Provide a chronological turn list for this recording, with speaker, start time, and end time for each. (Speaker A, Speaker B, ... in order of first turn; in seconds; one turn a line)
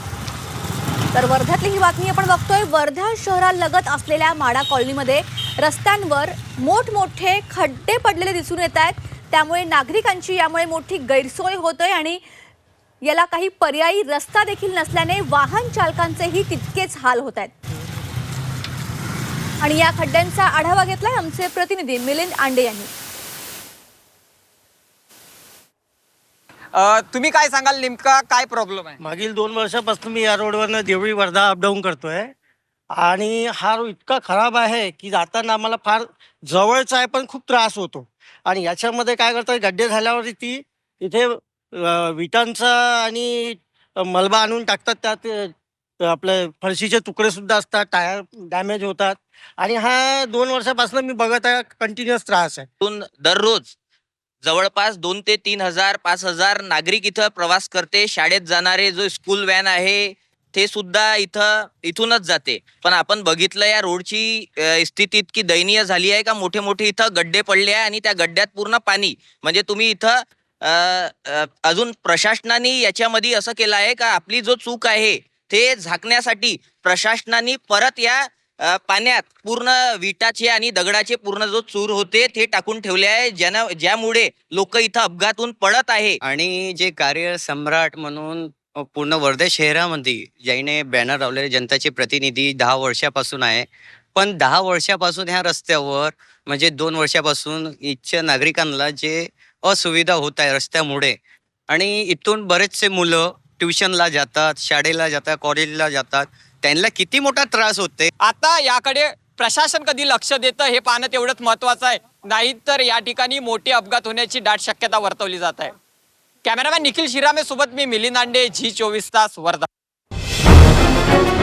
Speaker A: 1.1-12.2
Speaker A: 13.0-17.5
Speaker A: 19.6-22.9
Speaker B: 26.7-29.0
Speaker C: 29.0-32.3
Speaker C: 32.9-52.7
Speaker D: 52.8-53.7
Speaker D: 54.4-86.2
Speaker E: 86.2-101.2
Speaker E: 101.7-108.1
Speaker B: 108.2-115.7
Speaker B: 116.4-119.7